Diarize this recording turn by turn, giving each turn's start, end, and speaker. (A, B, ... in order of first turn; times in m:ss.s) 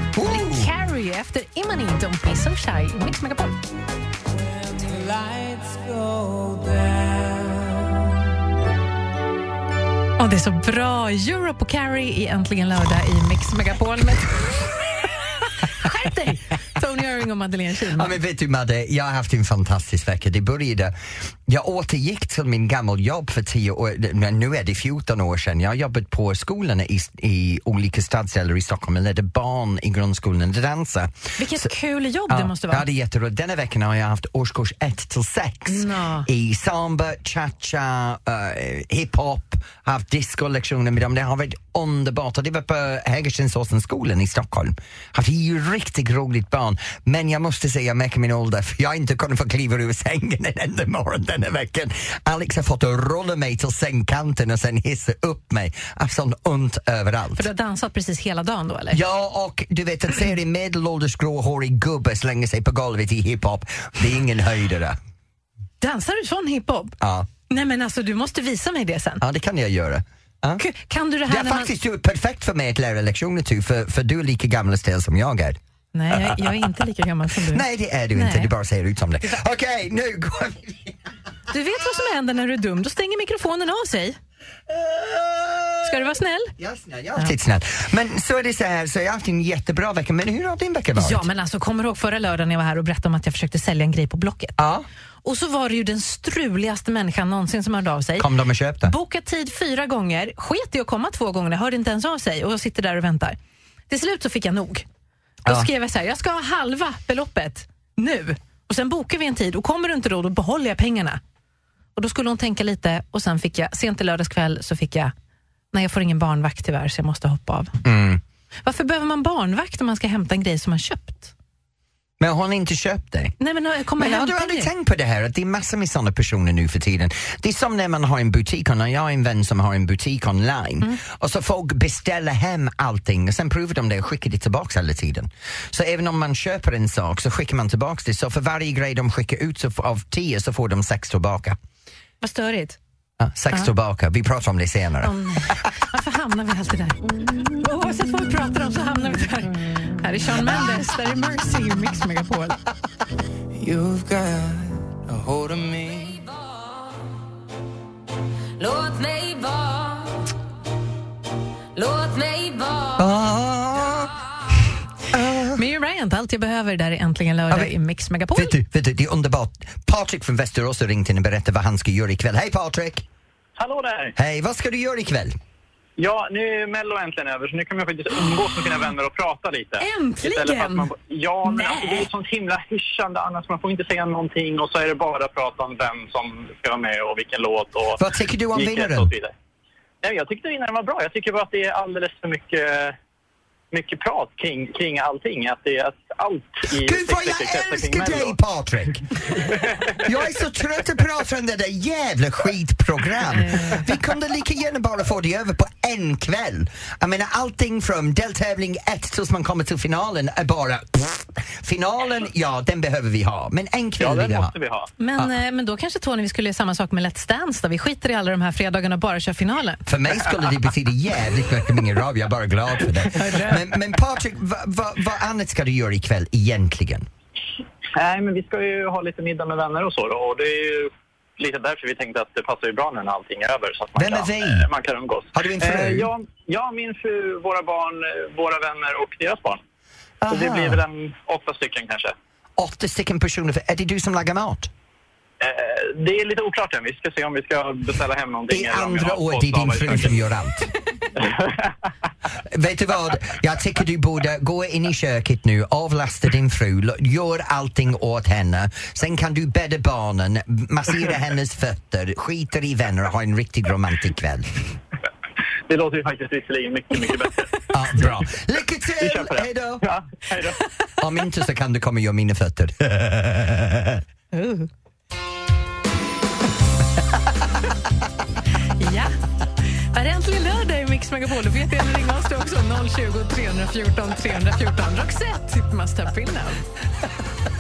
0:00.1-0:00.7 A
0:00.2-0:03.6 B
0:05.0-0:07.1 C
0:10.2-0:14.7 B
0:15.6-0:18.1 B
0:17.9-0:20.9 A
0:21.5-0:31.7 A
0:31.4-0:32.8 B
0:32.3-0:57.4 A
0:35.7-0:36.3 B
0:57.4-0:59.0 B
0:58.9-1:05.0 A
1:05.8-1:07.0 B
1:07.0-1:07.3 A
1:07.5-1:09.2 B
1:09.2-1:10.6 A
1:10.6-1:11.7 B
1:11.3-1:15.6 A
1:15.9-1:18.5 B
1:16.1-1:16.8 A
1:17.3-1:21.0 A
1:21.5-1:24.2 B
1:24.7-1:31.3 A
1:25.8-1:26.5 B
1:31.0-1:34.6 B
1:34.6-1:34.8 A
1:35.2-1:38.3 B
1:38.2-1:38.9 A
1:38.8-1:43.4 B
1:43.9-1:44.8 B
1:45.4-1:51.2 B
1:52.0-1:55.1 B
1:55.7-1:57.7 B
1:57.8-1:58.2 A
1:58.6-2:01.3 B
2:02.2-2:03.3 A
2:03.4-2:04.7 B
2:04.0-2:21.6 A
2:22.2-2:22.8 B
2:23.2-2:25.1 A
2:25.0-2:32.6 B
2:33.5-2:36.2 C
2:38.6-2:40.2 D
2:41.8-2:43.0 D
2:42.9-2:44.2 A
2:45.1-2:45.6 A
2:45.5-2:48.5 B
2:48.3-2:53.0 A
2:53.6-2:54.1 E
2:54.2-2:55.4 A
2:56.0-3:08.0 E
2:59.8-3:00.9 B
3:01.4-3:02.1 B
3:08.0-3:09.1 A
3:08.5-3:09.3 E
3:10.0-3:13.0 E
3:13.7-3:18.3 E
3:16.7-3:19.0 A
3:19.5-3:20.0 E
3:20.0-3:34.5 A
3:23.3-3:23.8 B
3:34.0-3:34.9 E
3:35.0-3:39.8 B
3:39.8-3:47.1 A
3:43.1-3:43.6 B
3:47.9-3:59.6 E
3:54.0-3:54.7 A
3:55.3-3:56.1 A
4:00.2-4:00.8 A
4:00.3-4:02.1 E
4:02.6-4:04.7 A
4:05.4-4:10.1 E
4:08.5-4:10.7 A
4:11.2-4:11.7 E
4:12.4-4:24.5 A
4:25.7-4:27.6 E
4:27.7-4:29.8 A
4:29.0-4:30.6 E
4:31.0-4:34.0 A
4:34.3-4:34.7 B
4:38.8-4:39.1 B
4:39.9-4:46.6 B